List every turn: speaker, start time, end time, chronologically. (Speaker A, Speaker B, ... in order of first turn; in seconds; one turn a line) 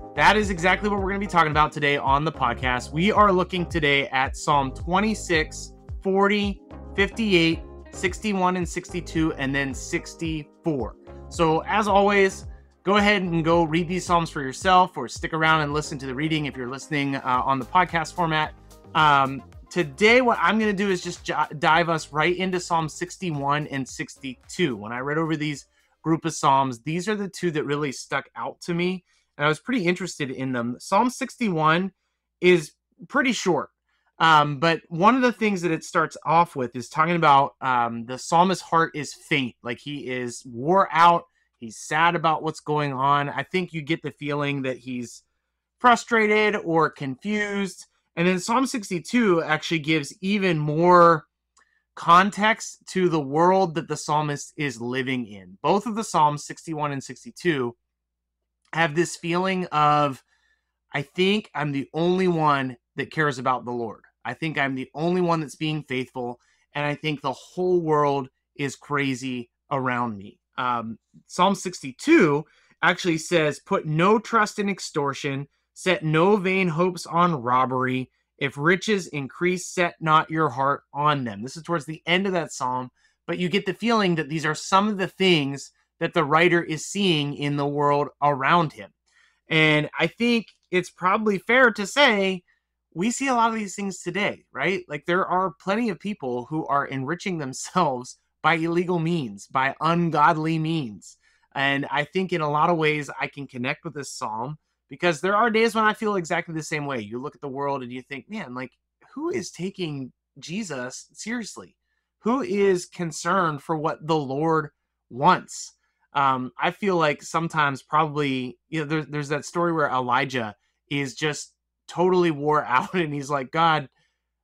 Speaker A: 0.1-45.2
Speaker A: 45.8-51.3
Speaker A: 51.9-57.8
Speaker A: 58.7-60.2
Speaker A: 60.9-88.9
Speaker A: 89.5-123.9